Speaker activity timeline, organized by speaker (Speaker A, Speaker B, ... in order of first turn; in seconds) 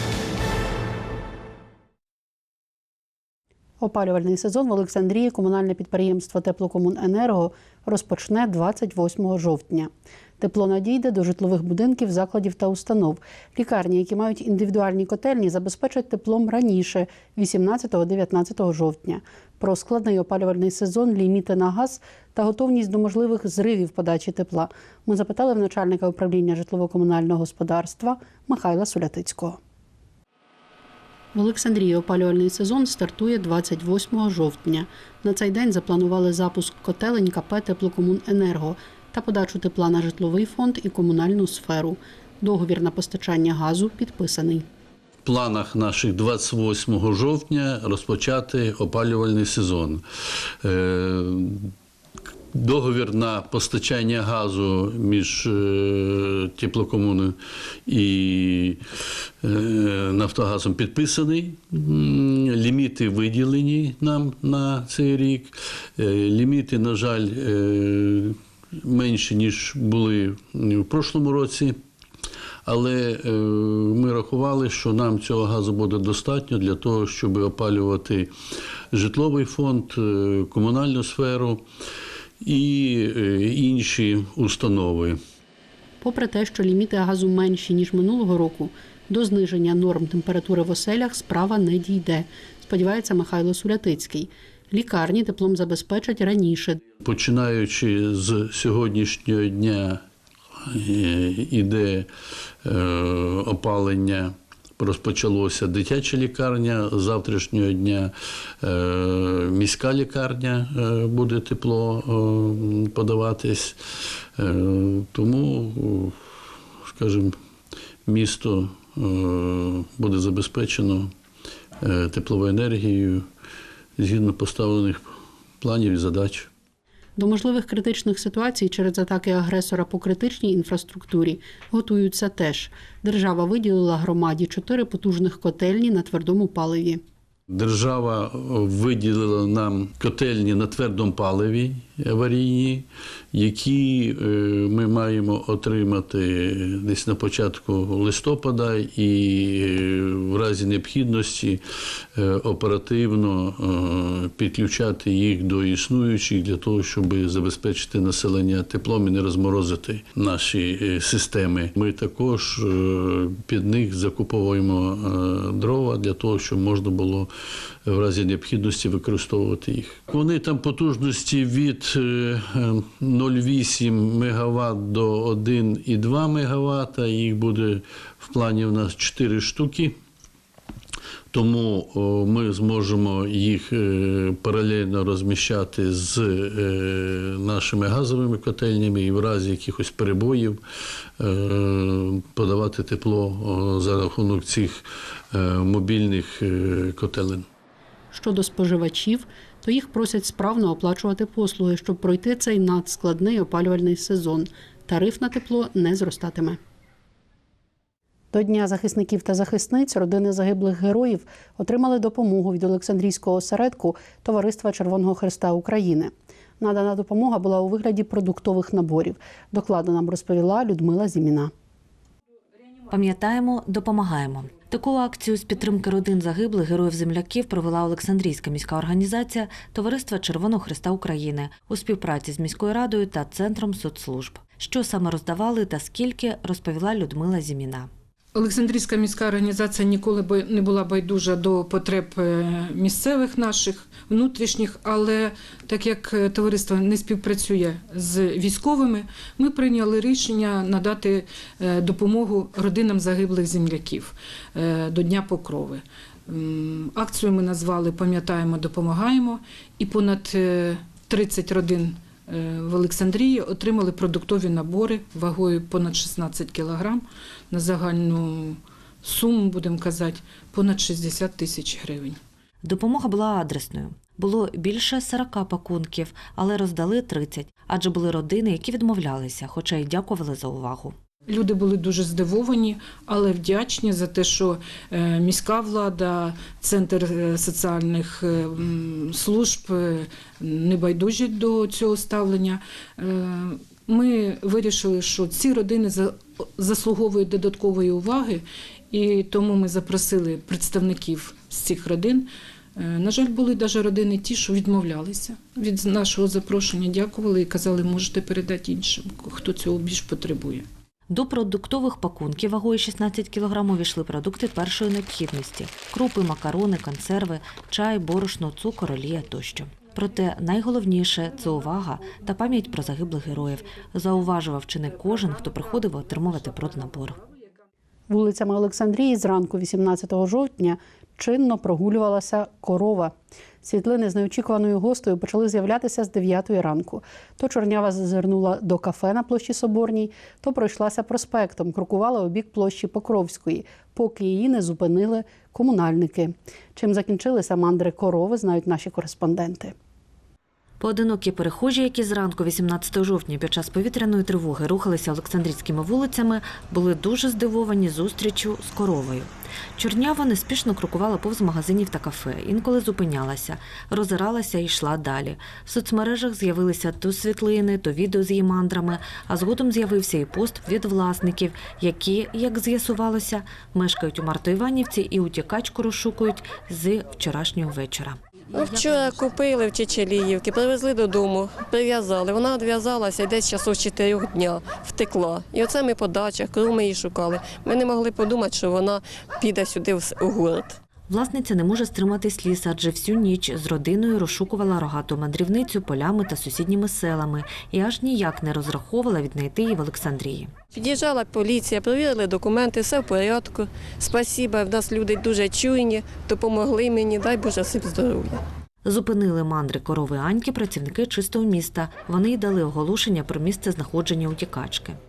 Speaker A: 3.8-29.6, 31.3-44.6, 86.0-96.8, 127.2-137.0, 198.1-206.6, 208.3-221.5, 328.1-349.7
Speaker B: 45.2-50.0, 50.6-51.7, 52.5-57.4, 57.9-58.8, 59.4-71.8, 72.7-78.3, 78.9-81.6, 82.4-85.2, 97.0-100.0, 100.7-102.1, 102.6-113.8, 114.4-116.1, 116.9-117.3, 118.0-121.1, 121.8-123.2, 124.0-125.0, 125.6-126.5, 137.5-151.6, 152.2-167.3, 167.8-179.9, 181.3-190.6, 191.2-194.8, 195.3-197.4
Speaker C: 222.9-237.9, 272.6-280.9, 311.1-327.2, 350.8-378.2, 391.1-400.5, 408.8-415.0
Speaker D: 238.3-272.2, 281.3-310.6
Speaker E: 378.5-390.8, 400.7-408.4